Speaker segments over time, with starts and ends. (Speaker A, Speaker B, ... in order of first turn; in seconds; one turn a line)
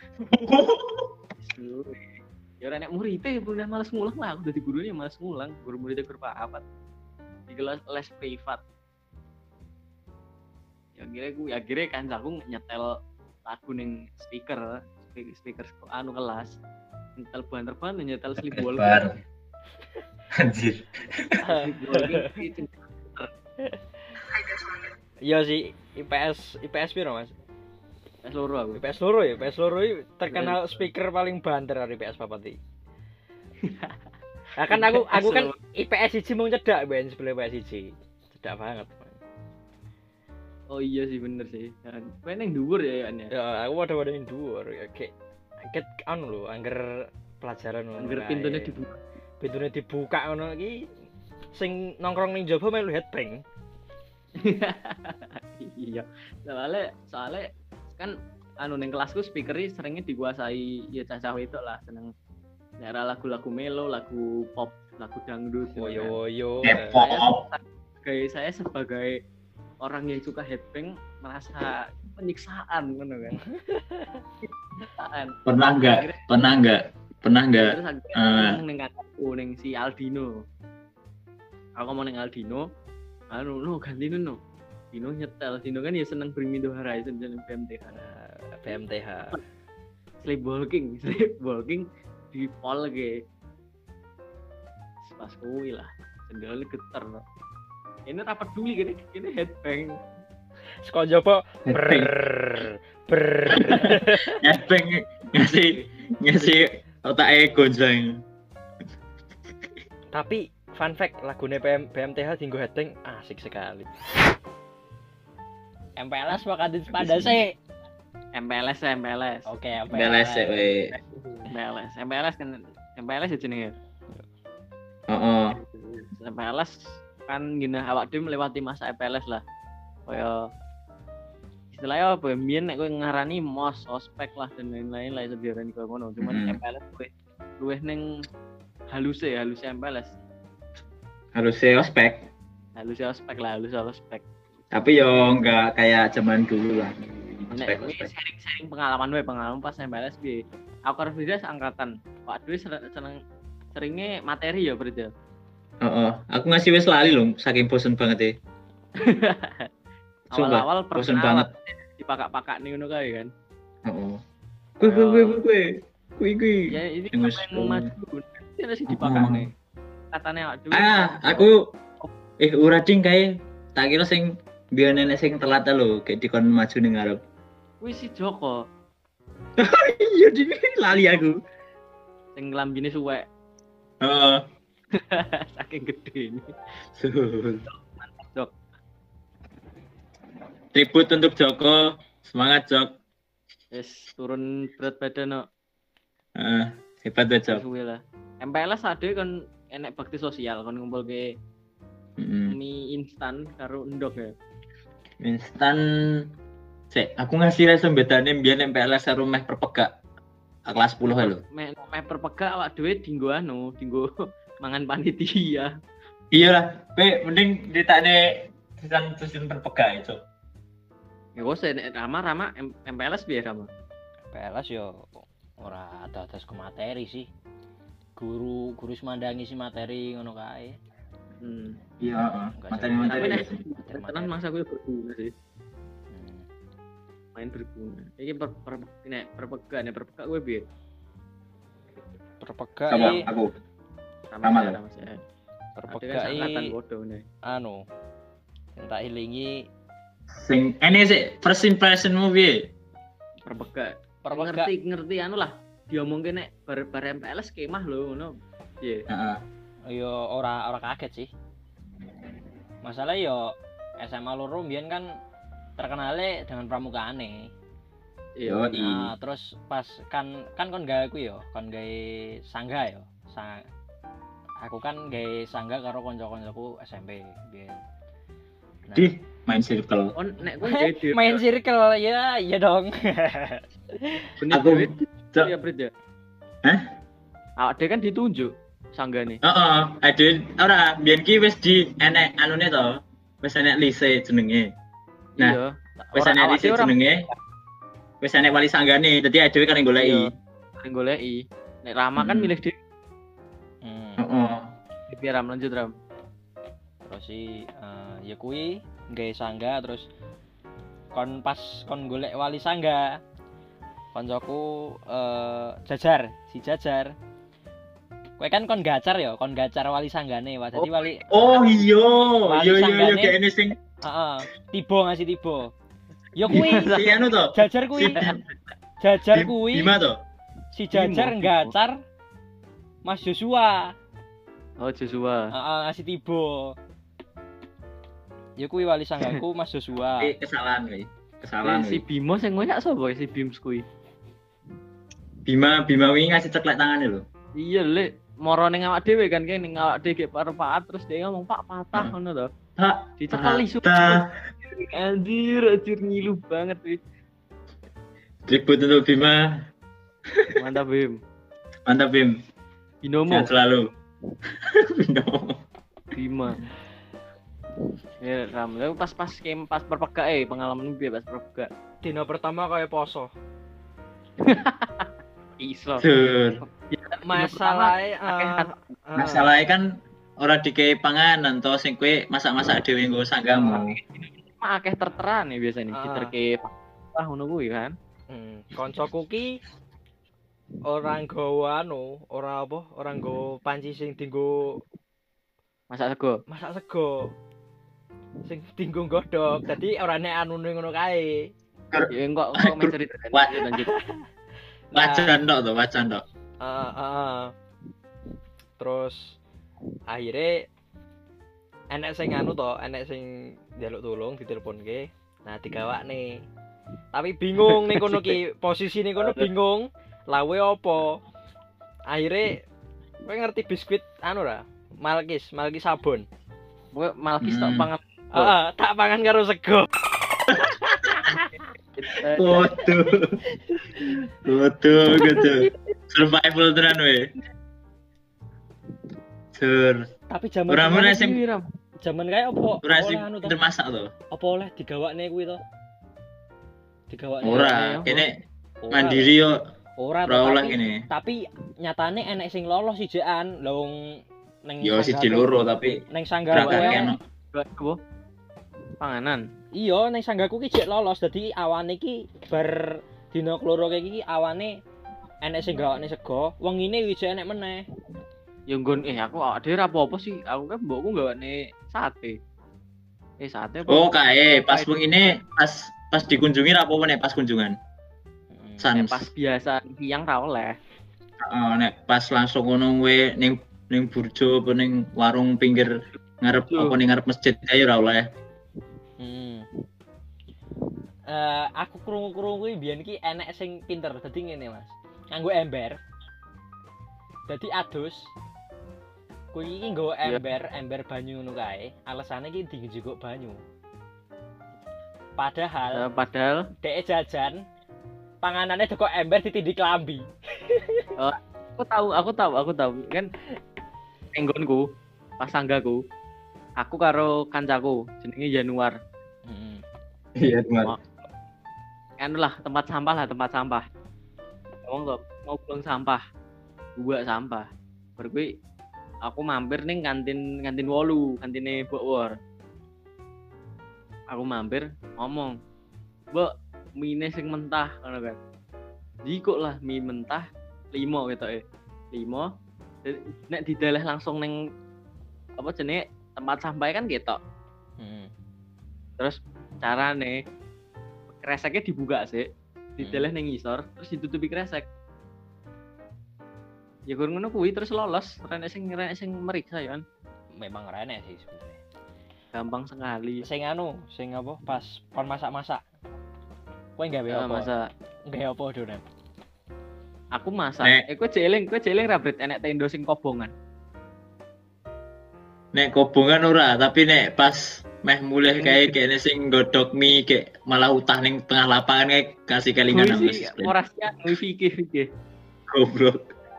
Speaker A: 0.3-1.1
Speaker B: 1.4-6.6
Speaker B: 7.5-8.6
Speaker B: 11.0-16.6
Speaker B: 17.2-19.1
Speaker A: 18.5-19.1
Speaker A: 20.4-21.4
Speaker B: 21.4-23.3
Speaker C: 21.4-22.4
Speaker C: 25.2-27.3
Speaker B: 28.2-28.8
Speaker C: 28.8-32.5
Speaker B: 30.3-30.8
Speaker B: 33.6-34.0
Speaker C: 34.6-39.2
Speaker B: 34.7-35.6
Speaker B: 40.7-43.3
Speaker C: 43.3-45.1
Speaker C: 45.7-48.7
Speaker B: 48.0-49.0
Speaker C: 49.4-50.9
Speaker C: 51.5-53.4
Speaker B: 54.4-62.1
Speaker B: 62.8-66.1
Speaker C: 65.8-67.0
Speaker A: 66.6-67.4
Speaker B: 66.8-69.2
Speaker B: 69.8-73.4
Speaker C: 73.5-74.2
Speaker B: 74.4-76.2
Speaker A: 75.5-78.6
Speaker B: 77.5-80.4
Speaker B: 81.8-82.7
Speaker B: 83.3-84.4
Speaker B: 84.9-88.0
Speaker C: 87.9-89.4
Speaker B: 88.7-89.4
Speaker B: 90.2-93.2
Speaker B: 95.1-97.2
Speaker B: 98.1-100.0
Speaker C: 100.8-104.4
Speaker A: 101.7-102.1
Speaker A: 103.5-108.2
Speaker C: 110.1-113.9
Speaker C: 116.0-117.5
Speaker A: 116.9-117.4
Speaker B: 118.3-119.5
Speaker C: 119.5-120.6
Speaker A: 119.9-120.9
Speaker B: 120.9-123.7
Speaker A: 125.1-125.6
Speaker B: 125.6-129.4
Speaker B: 130.1-130.5
Speaker B: 131.7-138.0
Speaker A: 136.2-136.6
Speaker B: 138.9-140.1
Speaker A: 141.3-142.2
Speaker B: 142.8-144.2
Speaker A: 144.7-146.9
Speaker B: 147.5-153.2
Speaker A: 147.6-148.1
Speaker B: 153.7-155.1
Speaker A: 155.8-158.3
Speaker B: 159.0-159.7
Speaker B: 160.3-163.3
Speaker A: 160.3-161.5
Speaker A: 163.8-164.2
Speaker A: 164.8-167.9
Speaker B: 164.8-165.4
Speaker B: 166.7-169.5
Speaker A: 168.9-169.4
Speaker B: 170.1-171.5
Speaker A: 170.7-171.6
Speaker A: 172.4-177.2
Speaker B: 177.8-178.6
Speaker A: 179.6-181.4
Speaker B: 182.3-183.2
Speaker A: 184.0-184.4
Speaker B: 184.9-186.5
Speaker A: 187.0-187.6
Speaker B: 187.7-188.5
Speaker A: 190.7-192.9
Speaker B: 193.7-195.4
Speaker A: 196.4-197.6
Speaker B: 197.5-201.2
Speaker A: 202.2-202.6
Speaker B: 202.5-204.3
Speaker A: 205.2-206.2
Speaker A: 206.9-209.9
Speaker A: 210.7-211.4
Speaker B: 211.0-214.1
Speaker B: 214.6-215.7
Speaker A: 216.3-220.2
Speaker B: 221.4-223.7
Speaker C: 224.3-227.3
Speaker C: 228.2-230.8
Speaker B: 231.4-231.8
Speaker A: 232.0-233.6
Speaker C: 232.6-234.3
Speaker B: 233.1-235.3
Speaker C: 236.1-236.4
Speaker B: 237.3-240.6
Speaker C: 242.4-243.3
Speaker A: 242.9-243.5
Speaker B: 244.3-245.2
Speaker A: 244.4-244.8
Speaker B: 245.8-247.2
Speaker C: 245.9-246.7
Speaker C: 247.5-247.8
Speaker C: 248.8-249.7
Speaker A: 250.4-252.7
Speaker B: 253.4-259.1
Speaker C: 254.2-254.7
Speaker A: 259.1-259.4
Speaker C: 259.9-261.3
Speaker C: 262.8-265.1
Speaker C: 265.8-267.5
Speaker B: 268.4-268.7
Speaker A: 268.4-269.1
Speaker C: 268.7-273.6
Speaker C: 274.6-277.8
Speaker C: 278.8-279.1
Speaker A: 278.9-280.1
Speaker B: 280.1-281.4
Speaker C: 280.6-284.2
Speaker B: 284.4-285.9
Speaker A: 284.5-285.5
Speaker B: 287.6-289.4
Speaker A: 289.4-294.7
Speaker B: 295.4-297.3
Speaker A: 296.1-297.2
Speaker A: 298.2-300.3
Speaker B: 300.0-302.8
Speaker A: 302.2-302.5
Speaker C: 303.8-304.4
Speaker A: 304.2-304.7
Speaker B: 305.1-305.9
Speaker C: 307.1-310.1
Speaker C: 311.1-313.2
Speaker C: 314.1-317.1
Speaker C: 318.4-321.3
Speaker A: 321.3-323.8
Speaker B: 321.3-321.7
Speaker C: 322.5-323.3
Speaker C: 324.0-325.7
Speaker C: 326.4-328.3
Speaker B: 326.5-326.9
Speaker A: 326.5-328.4
Speaker C: 329.0-329.9
Speaker A: 329.3-330.2
Speaker C: 330.7-331.9
Speaker B: 330.9-331.7
Speaker C: 333.0-333.9
Speaker B: 334.8-335.5
Speaker C: 335.5-336.7
Speaker C: 338.6-340.3
Speaker A: 340.2-342.0
Speaker B: 341.6-343.8
Speaker A: 345.4-347.2
Speaker B: 347.6-352.5
Speaker A: 352.8-354.2
Speaker B: 353.2-357.0
Speaker A: 358.5-359.4
Speaker A: 360.3-360.5
Speaker B: 360.5-361.2
Speaker A: 361.9-362.3
Speaker B: 363.0-363.5
Speaker A: 363.3-363.9
Speaker A: 364.5-365.6
Speaker B: 366.1-366.6
Speaker B: 368.2-371.7
Speaker C: 372.0-373.3
Speaker B: 374.4-376.1
Speaker A: 376.0-376.6
Speaker B: 376.7-378.7
Speaker C: 377.2-379.5
Speaker A: 379.1-379.9
Speaker A: 380.4-383.9
Speaker B: 383.5-387.9
Speaker C: 385.9-386.3
Speaker C: 388.3-389.6
Speaker C: 390.9-394.8
Speaker B: 395.9-396.4
Speaker C: 396.5-397.3
Speaker C: 398.4-401.5
Speaker A: 401.9-403.6
Speaker B: 402.1-403.9
Speaker C: 403.9-404.2
Speaker C: 404.9-405.3
Speaker A: 404.9-406.2
Speaker C: 406.6-407.5
Speaker C: 408.8-409.4
Speaker C: 410.1-410.6
Speaker C: 411.9-416.4
Speaker C: 417.1-421.2
Speaker B: 417.7-418.2
Speaker B: 419.2-419.4
Speaker C: 422.1-422.6
Speaker C: 423.2-426.2
Speaker B: 426.9-428.5
Speaker A: 427.4-427.9
Speaker C: 428.3-429.9
Speaker C: 430.5-431.5
Speaker B: 431.9-432.7
Speaker A: 432.4-433.4
Speaker C: 433.7-434.1
Speaker A: 434.4-437.3
Speaker A: 439.5-440.1
Speaker C: 440.3-441.1
Speaker A: 440.7-441.4
Speaker B: 440.9-441.6
Speaker C: 442.0-443.6
Speaker A: 442.8-444.1
Speaker C: 444.3-445.6
Speaker C: 447.1-447.8
Speaker A: 447.4-448.3
Speaker B: 447.5-448.2
Speaker C: 448.8-449.3
Speaker A: 448.9-449.6
Speaker C: 450.0-455.5
Speaker A: 450.2-451.0
Speaker A: 454.8-457.2
Speaker C: 456.1-457.1
Speaker B: 456.5-458.0
Speaker B: 459.0-459.4
Speaker C: 459.7-464.8
Speaker C: 465.4-467.9
Speaker B: 468.7-472.4
Speaker B: 473.4-474.9
Speaker A: 473.9-477.7
Speaker C: 478.5-478.9
Speaker A: 478.8-479.3
Speaker B: 478.9-480.8
Speaker A: 481.4-488.2
Speaker B: 486.7-487.0
Speaker C: 489.2-489.6
Speaker C: 491.3-496.0
Speaker C: 497.5-498.3
Speaker C: 499.5-503.6
Speaker C: 505.4-506.1
Speaker B: 505.9-506.6
Speaker C: 506.8-507.6
Speaker C: 508.4-511.1
Speaker B: 511.2-513.3
Speaker B: 514.3-514.9
Speaker B: 515.4-516.0
Speaker B: 516.8-519.0
Speaker C: 519.5-519.8
Speaker A: 520.4-520.9
Speaker B: 522.2-523.8
Speaker B: 524.8-526.2
Speaker B: 527.0-527.7
Speaker B: 528.2-528.5
Speaker B: 529.2-532.3
Speaker B: 534.3-535.5
Speaker B: 536.3-538.4
Speaker B: 539.2-542.5
Speaker B: 543.0-544.5
Speaker B: 545.6-547.4
Speaker C: 548.0-548.3
Speaker B: 549.2-550.4
Speaker B: 551.4-552.5
Speaker B: 553.0-554.9
Speaker C: 553.0-553.3
Speaker B: 557.1-560.0
Speaker C: 560.6-561.8
Speaker B: 562.5-563.4
Speaker C: 563.4-565.8
Speaker C: 567.0-567.7
Speaker B: 567.3-567.9
Speaker C: 568.3-569.0
Speaker B: 570.4-573.5
Speaker A: 575.7-583.7
Speaker B: 578.6-578.9
Speaker B: 582.9-585.1
Speaker A: 585.7-586.2